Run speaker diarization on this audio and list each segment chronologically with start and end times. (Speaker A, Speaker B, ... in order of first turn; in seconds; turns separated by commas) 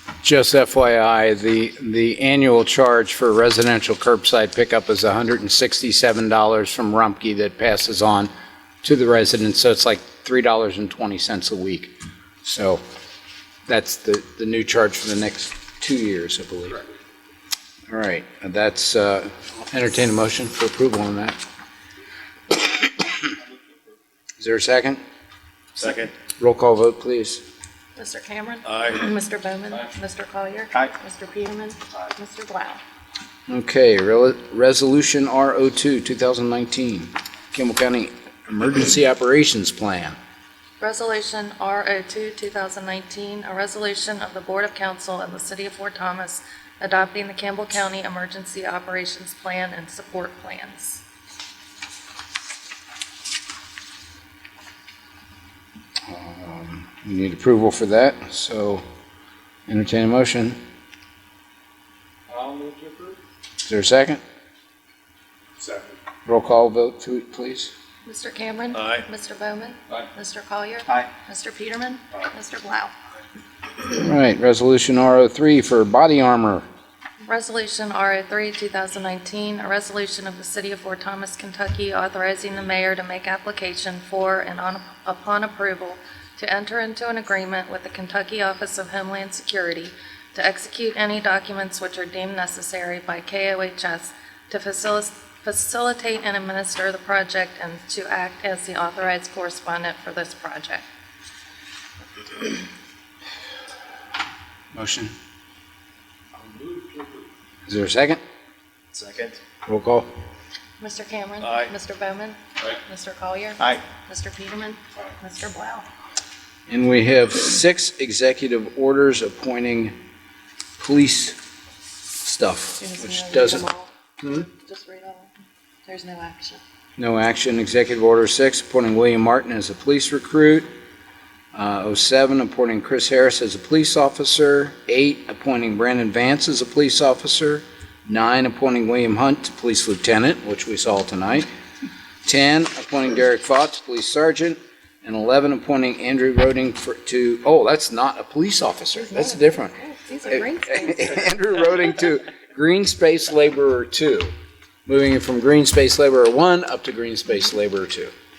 Speaker A: 0.2-8.3, Speaker A: 8.8-12.8, Speaker A: 13.7-16.8, Speaker A: 17.9-21.4, Speaker A: 24.4-25.0, Speaker A: 25.8-27.4, Speaker B: 25.8-26.1, Speaker C: 27.9-32.8, Speaker A: 33.5-40.2, Speaker C: 40.8-51.0, Speaker A: 56.1-58.8, Speaker A: 59.7-60.6, Speaker B: 62.3-63.2, Speaker A: 63.6-64.2, Speaker A: 66.2-67.7, Speaker C: 68.0-72.9, Speaker A: 73.8-76.7, Speaker C: 77.2-100.8, Speaker A: 104.7-105.1, Speaker B: 106.4-107.2, Speaker A: 107.7-108.2, Speaker B: 108.9-109.4, Speaker A: 109.6-110.1, Speaker C: 110.8-115.8, Speaker B: 111.4-111.7, Speaker A: 116.7-119.9, Speaker A: 120.8-121.3, Speaker A: 122.2-123.7, Speaker C: 122.8-125.3, Speaker C: 125.9-126.6, Speaker A: 127.0-130.7, Speaker A: 131.5-141.5, Speaker A: 142.2-149.7, Speaker C: 148.9-151.1, Speaker A: 150.3-154.3, Speaker A: 154.8-158.1